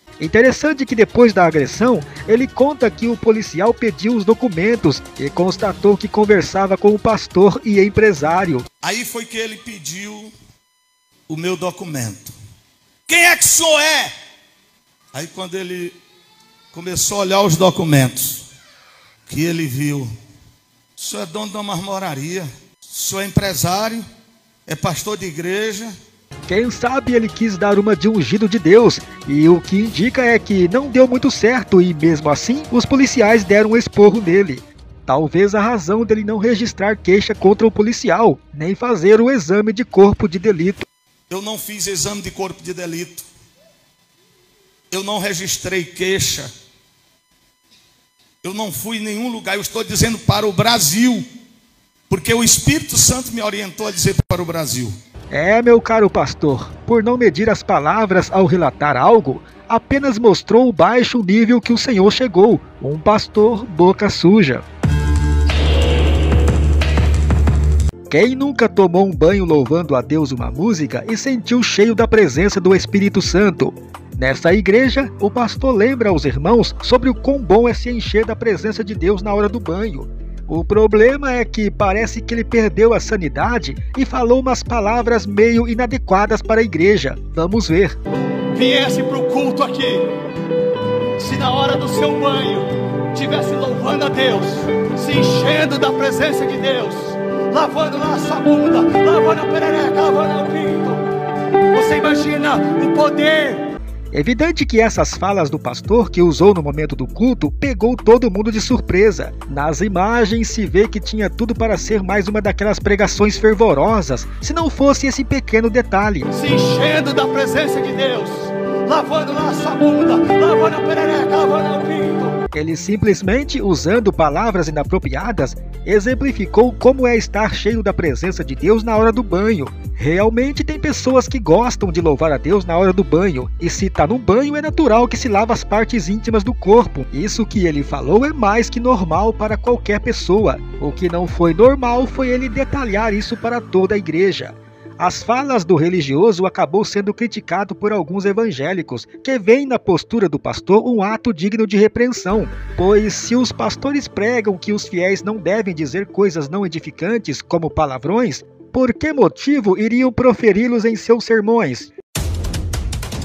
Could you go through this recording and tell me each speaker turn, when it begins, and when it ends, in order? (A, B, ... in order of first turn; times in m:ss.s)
0:00.2-0:08.7 A
0:08.8-0:10.3 B
0:11.3-0:12.4 B
0:13.1-0:14.1 B
0:15.1-0:16.0 B
0:16.7-0:18.4 B
0:19.3-0:20.1 B
0:21.0-0:24.0 B
0:24.7-0:25.9 B
0:26.5-0:40.8 A
0:41.3-0:43.3 B
0:44.9-0:46.5 B
0:48.4-0:51.3 B
0:52.1-0:55.0 B
0:55.3-1:04.6 A
1:08.1-1:28.0 A
1:28.5-1:30.1 C
1:31.2-1:41.0 C
1:41.7-1:43.6 C
1:44.1-1:56.3 A
1:56.3-2:02.4 C
2:02.5-2:41.9 A